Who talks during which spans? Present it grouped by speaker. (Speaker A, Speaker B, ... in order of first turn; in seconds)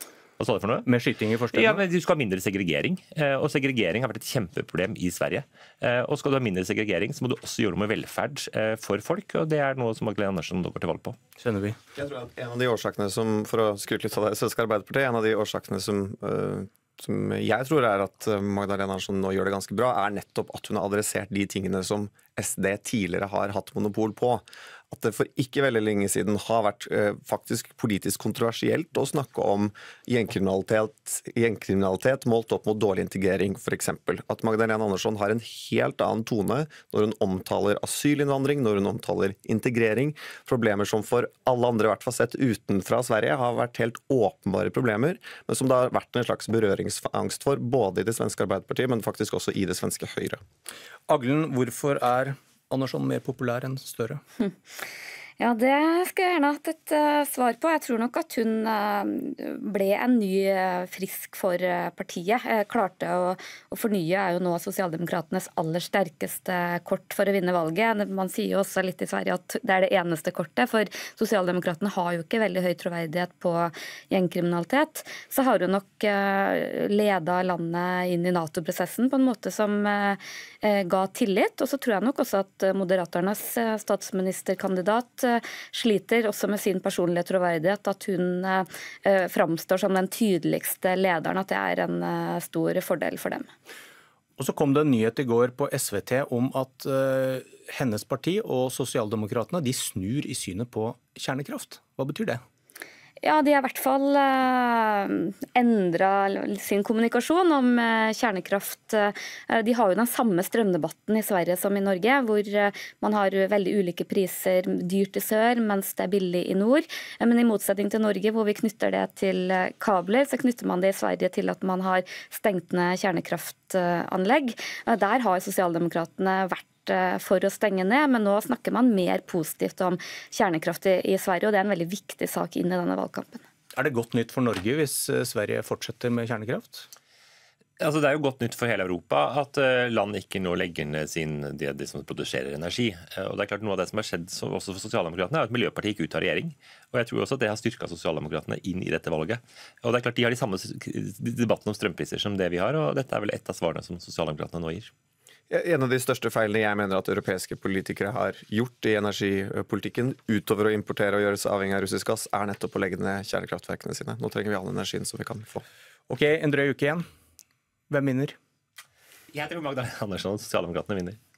Speaker A: 0.4-0.9, 1.5-11.2, 137.8-154.9, 169.3-171.2
Speaker B: 0.9-1.8, 11.4-11.8, 51.1-54.2, 94.4-102.4, 133.7-136.9, 166.1-167.1, 167.9-168.4
Speaker C: 12.0-50.4, 155.5-165.6
Speaker D: 55.4-93.5, 103.2-133.4